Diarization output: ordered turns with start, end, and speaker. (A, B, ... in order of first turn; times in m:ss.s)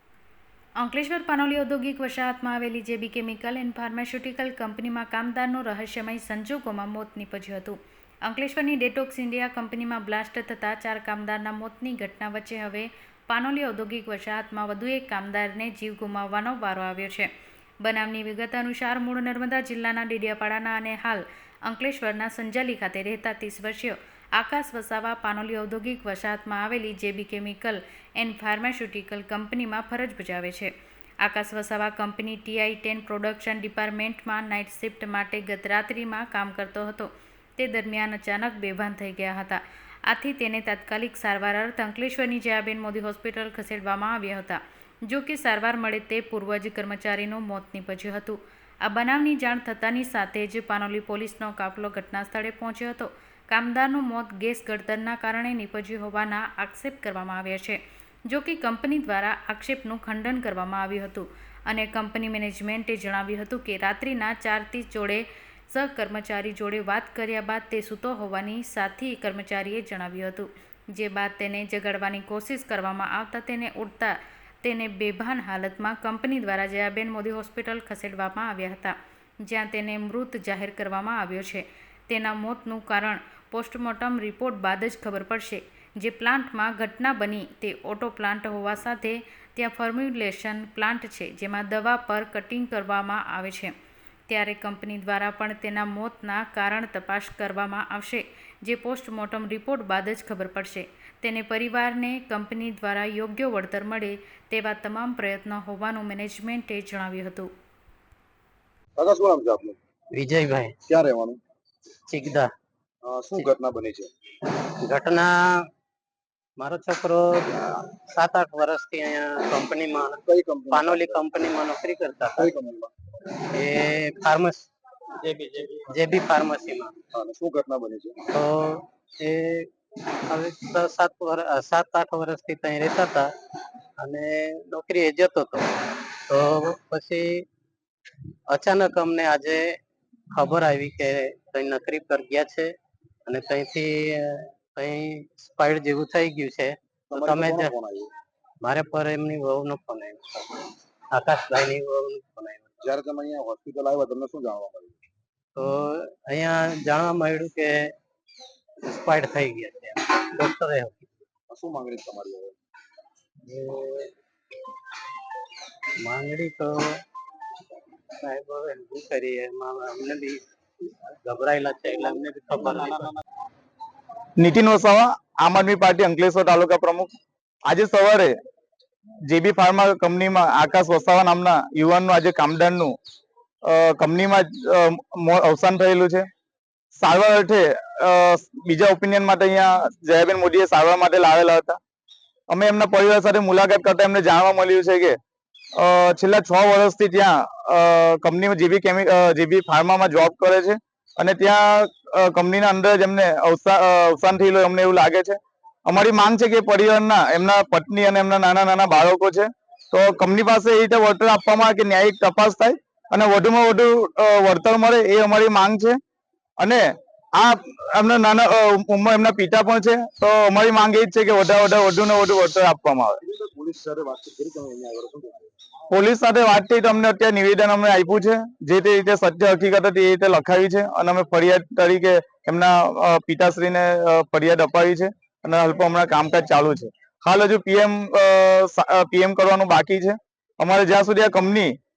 0:00.8-0:17.3 A
0:17.8-1:33.7 A
1:34.3-1:47.5 A
1:49.0-1:49.8 B
1:50.1-1:50.8 C
1:50.9-1:51.4 B
1:52.1-1:52.5 C
1:53.0-1:54.1 B
1:54.8-1:55.6 C
1:56.6-2:02.5 C
2:00.2-2:01.3 B
2:02.4-2:02.9 B
2:03.5-2:04.7 C
2:05.2-2:07.0 C
2:07.1-2:08.2 B
2:08.3-2:09.7 C
2:10.3-2:13.3 C
2:14.0-2:15.7 C
2:16.3-2:17.4 C
2:18.5-2:19.8 C
2:20.3-2:22.7 C
2:23.3-2:27.7 C
2:27.1-2:28.1 B
2:28.6-2:32.8 C
2:32.8-2:35.0 B
2:35.6-2:37.8 C
2:38.8-2:41.1 C
2:41.5-2:42.5 B
2:43.5-2:44.1 C
2:46.0-2:46.8 C
2:48.2-2:50.4 C
2:51.2-2:53.1 C
2:54.4-2:57.1 D
2:57.7-2:58.3 D
2:59.3-3:03.0 D
3:03.7-3:06.3 D
3:07.0-3:11.8 D
3:12.5-3:15.2 D
3:15.8-3:36.0 D
3:37.4-3:43.2 D
3:43.2-3:45.5 B
3:45.9-4:01.8 D